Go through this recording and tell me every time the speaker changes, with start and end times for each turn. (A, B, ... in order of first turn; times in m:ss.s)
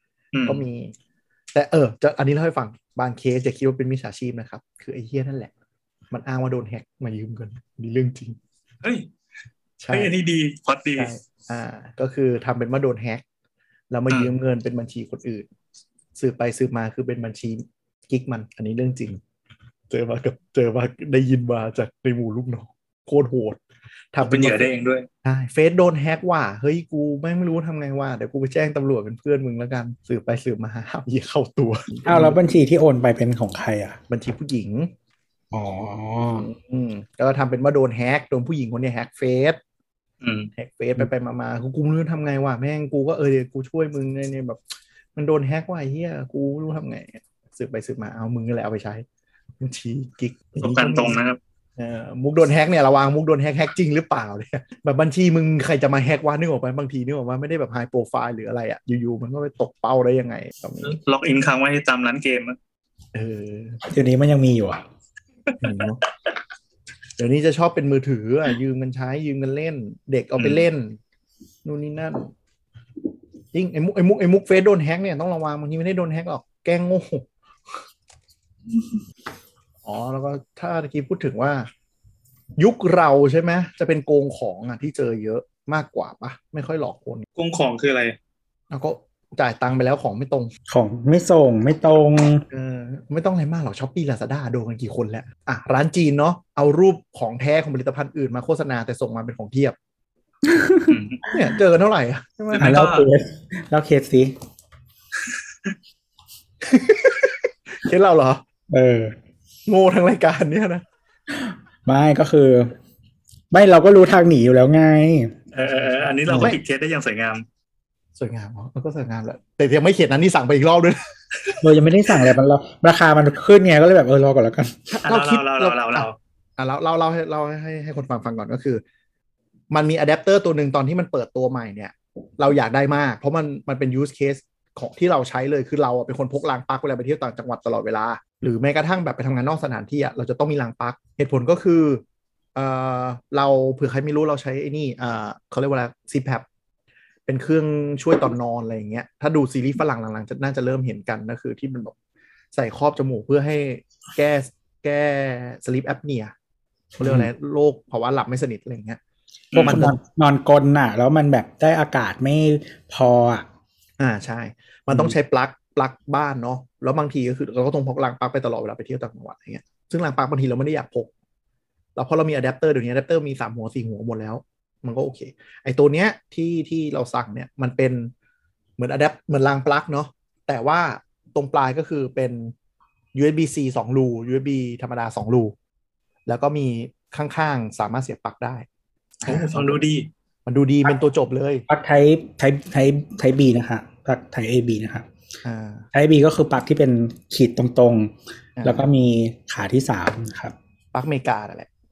0:00.3-0:00.6 A
0:00.4-0:00.9 B
0:01.5-0:05.5 B
0:06.1-0:08.4 B
0:08.8-0:09.1 A
0:09.8-0:10.1 B
0:09.9-0:11.1 A
0:11.0-0:13.2 B
0:13.9-0:15.5 B
0:16.2-0:19.2 B
0:19.9-0:23.6 B
0:24.1-0:24.7 B
0:24.2-0:25.1 A
0:25.2-0:32.4 B
0:32.0-0:34.0 C
0:34.1-0:34.9 B
0:35.5-0:36.4 C
0:36.3-0:39.6 B
0:40.2-0:40.5 A
0:40.6-0:44.6 B
0:45.2-0:49.0 B
0:49.6-0:51.2 B
0:50.6-0:51.4 A
0:51.8-1:01.0 B
1:00.8-1:02.6 A
1:03.1-1:03.8 B
1:03.8-1:04.8 C
1:05.6-1:06.0 B
1:07.2-1:11.0 B
1:10.4-1:10.6 A
1:11.6-1:12.3 B
1:13.5-1:17.2 B
1:19.8-1:21.7 B
1:22.6-1:27.3 B
1:27.4-1:28.2 A
1:28.7-1:30.5 B
1:30.7-1:32.4 C
1:32.5-1:39.8 B
1:40.4-1:41.3 C
1:40.9-1:41.2 A
1:41.3-1:42.8 B
1:42.5-1:43.1 A
1:42.6-1:44.3 C
1:46.6-1:48.4 B
1:48.7-1:49.1 C
1:49.7-1:50.8 B
1:51.3-1:52.7 C
1:53.5-1:55.3 C
1:55.5-1:57.4 A
1:55.6-1:56.6 B
1:56.3-1:56.6 C
1:58.2-2:01.6 B
2:01.6-2:04.9 C
2:04.9-2:06.1 B
2:05.0-2:06.2 A
2:06.6-2:08.8 B
2:09.7-2:22.0 B
2:22.5-2:26.4 B
2:27.3-2:31.9 B
2:32.5-2:36.3 B
2:37.0-2:37.3 C
2:37.0-2:39.0 B
2:39.5-2:39.8 A
2:39.6-2:43.4 C
2:39.6-2:40.0 B
2:44.0-2:51.1 B
2:44.9-2:45.2 C
2:52.0-2:58.1 B
2:58.8-3:02.5 B
3:03.1-3:05.5 B
3:06.3-3:08.6 B
3:09.2-3:09.8 B
3:09.2-3:10.1 A
3:10.4-3:11.6 B
3:11.7-3:15.0 C
3:15.4-3:15.9 B
3:15.9-3:20.5 C
3:18.6-3:18.9 B
3:20.9-3:21.7 B